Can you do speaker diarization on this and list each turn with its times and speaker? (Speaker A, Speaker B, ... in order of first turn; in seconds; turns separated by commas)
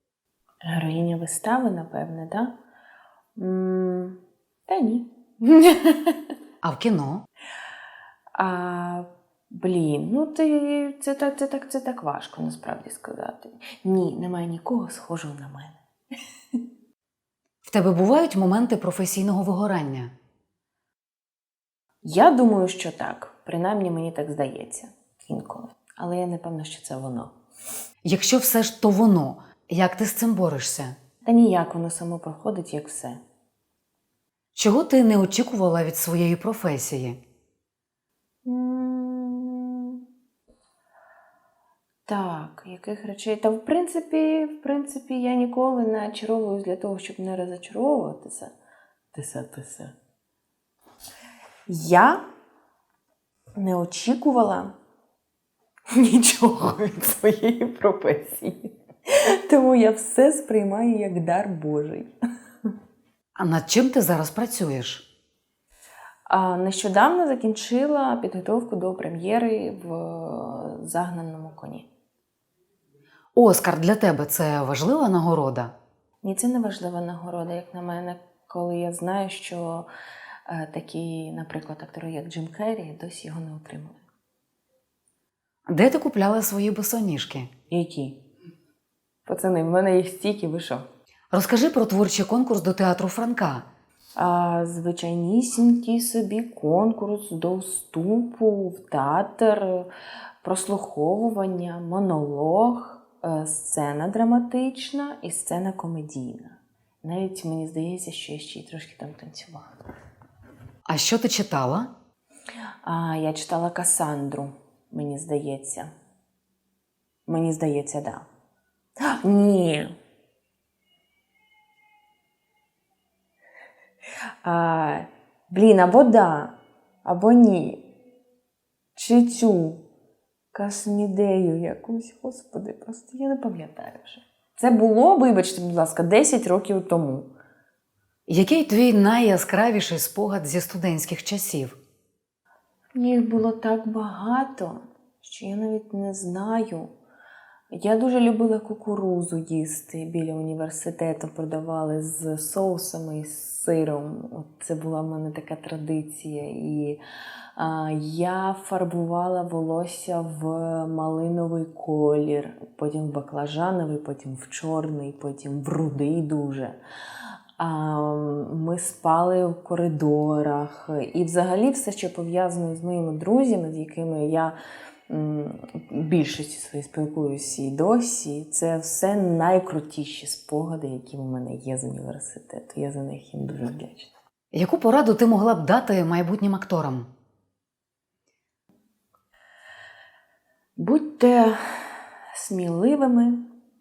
Speaker A: 0.6-2.5, Speaker A: 3.4-6.1, Speaker B: 6.6-7.2, Speaker A: 8.4-15.8, Speaker B: 17.6-20.1, Speaker A: 22.0-27.3, Speaker B: 28.1-31.0, Speaker A: 31.2-33.2, Speaker B: 34.5-37.2, Speaker A: 38.5-40.0, Speaker A: 42.1-48.5, Speaker A: 49.1-50.0, Speaker A: 51.7-52.2, Speaker A: 53.6-54.8, Speaker A: 55.9-62.1, Speaker B: 63.4-65.0, Speaker A: 66.3-71.9, Speaker B: 73.3-75.7, Speaker A: 76.2-79.9, Speaker A: 80.5-84.0, Speaker B: 85.7-87.5, Speaker A: 87.7-88.2, Speaker A: 89.3-90.8, Speaker B: 91.3-93.7, Speaker A: 94.2-99.9, Speaker A: 100.4-109.7, Speaker B: 110.9-111.9, Speaker A: 112.8-115.9, Speaker A: 117.3-118.3, Speaker A: 119.1-119.9, Speaker A: 124.4-127.8, Speaker A: 128.9-129.8, Speaker A: 130.5-137.3, Speaker B: 138.3-141.8, Speaker A: 142.9-146.9, Speaker A: 147.7-157.0, Speaker A: 157.6-166.8, Speaker A: 167.6-174.6, Speaker A: 175.1-184.1, Speaker B: 184.5-187.1, Speaker A: 190.8-191.6, Speaker A: 192.3-193.4